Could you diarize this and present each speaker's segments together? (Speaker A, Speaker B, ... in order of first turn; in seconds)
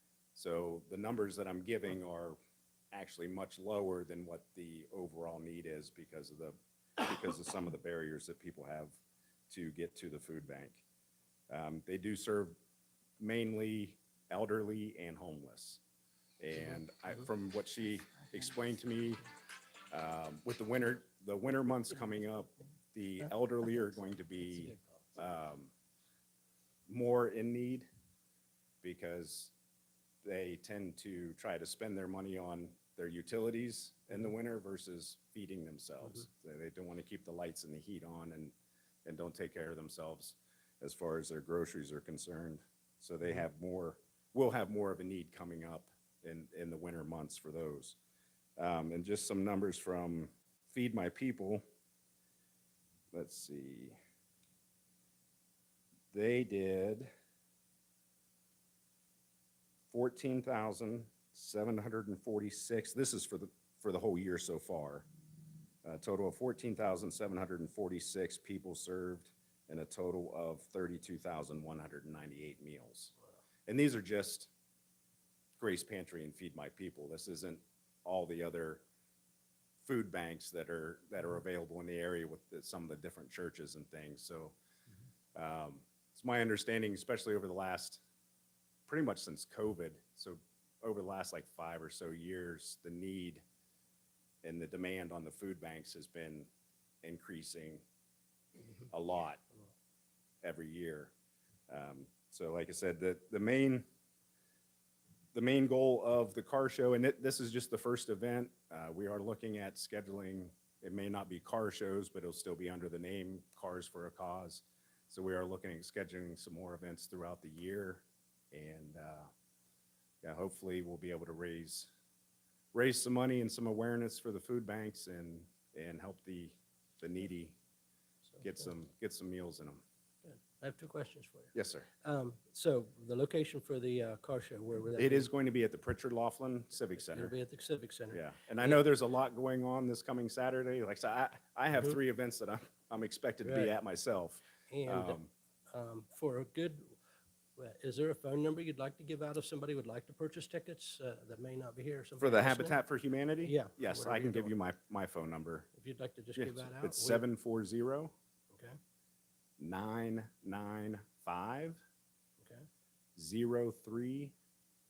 Speaker A: 0.3-2.4, 2.9-9.0, 9.5-10.8, 11.5-12.6, 13.2-15.8, 16.4-19.2, 19.9-25.7, 26.9-27.9, 28.8-29.5, 30.2-38.5, 39.0-48.0, 48.6-51.6, 53.1-54.0, 56.1-57.1, 59.9-65.1, 65.8-73.1, 73.7-74.5, 75.6-78.8, 79.8-84.5, 85.3-88.0, 88.9-93.4, 94.4-96.5, 97.0-97.8, 98.9-99.4, 100.4-101.1, 101.7-103.9, 105.3-119.3, 120.2-121.9, 122.7-127.6, 128.4-129.8, 131.5-131.9, 135.0-137.3, 138.1-145.3, 152.2-155.7, 156.3-158.1, 159.6-161.8, 163.2-164.3
Speaker B: 24.6-24.9, 130.2-135.3, 137.0-138.8, 143.4-143.8, 144.7-145.2, 145.7-146.9, 147.6-152.8, 153.4-154.5, 155.8-157.2, 158.5-158.8